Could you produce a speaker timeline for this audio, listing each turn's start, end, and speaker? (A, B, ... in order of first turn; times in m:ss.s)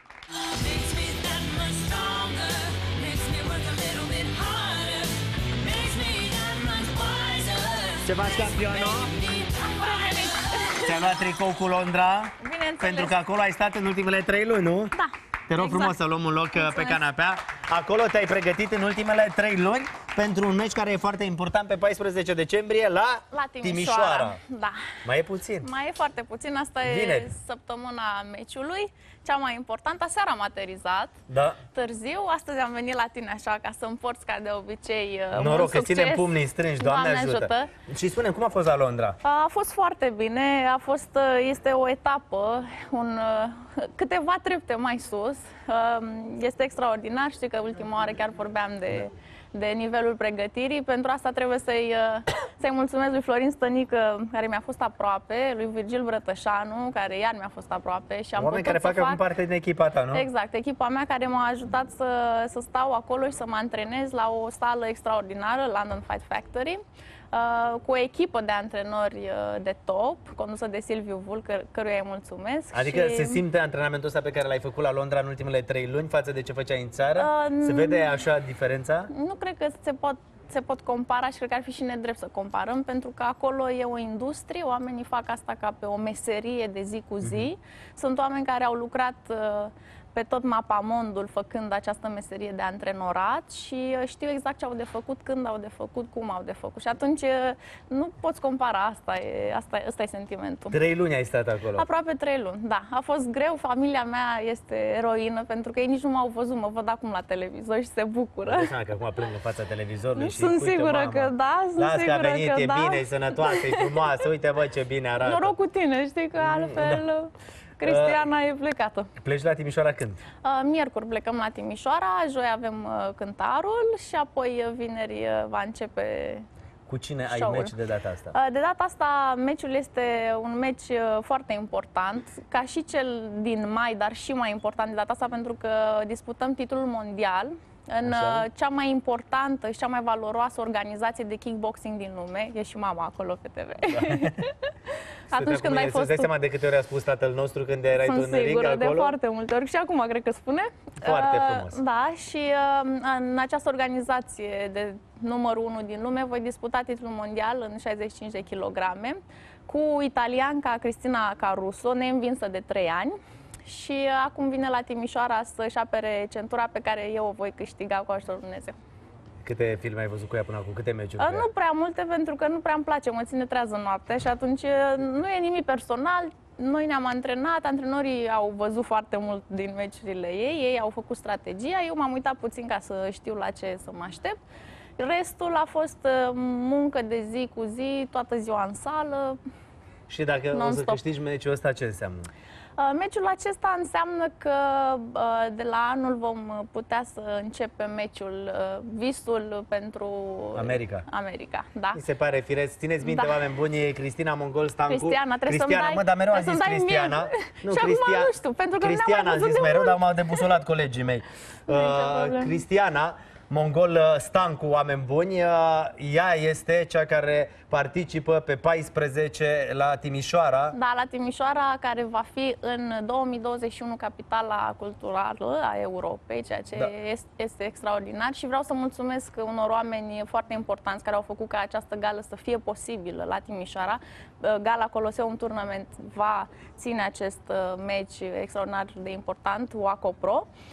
0:00.5-0:08.0 A
0:05.8-0:07.4 B
0:08.0-0:09.2 C
0:09.0-0:11.1 B
0:09.2-0:09.6 A
0:10.8-0:15.0 C
0:12.4-0:13.2 B
0:15.0-0:15.9 B
0:15.5-0:24.4 C
0:16.5-0:17.0 B
0:23.3-0:24.9 B
0:25.0-0:25.7 C
0:25.6-0:31.2 B
0:26.8-0:27.3 C
0:31.3-0:31.6 C
0:31.7-0:37.7 B
0:35.3-0:39.2 C
0:39.2-0:59.2 B
0:58.4-1:00.2 C
1:00.1-1:06.8 B
1:07.3-1:13.4 B
1:12.7-1:19.1 C
1:17.2-1:18.1 B
1:19.1-1:40.8 B
1:40.7-1:41.8 C
1:41.8-1:48.7 B
1:48.4-1:55.5 C
1:50.2-1:54.1 B
1:55.2-1:59.1 B
1:56.4-1:57.0 C
1:57.8-1:58.3 C
1:59.2-2:00.2 C
2:00.4-2:06.4 B
2:06.9-2:08.3 C
2:07.3-2:07.7 B
2:08.3-2:26.3 B
2:18.0-2:18.4 C
2:23.9-2:24.4 C
2:25.3-2:29.1 C
2:27.9-2:48.8 B
2:31.0-2:31.8 C
2:49.4-2:51.4 C
2:51.2-3:04.4 B
3:05.0-3:09.4 B
3:10.1-3:12.3 C
3:10.5-3:11.0 B
3:12.8-3:22.0 B
3:20.6-3:21.0 C
3:21.9-3:40.8 C
3:23.0-3:23.4 B
3:24.9-3:30.5 B
3:31.7-3:32.6 B
3:40.7-4:00.5 B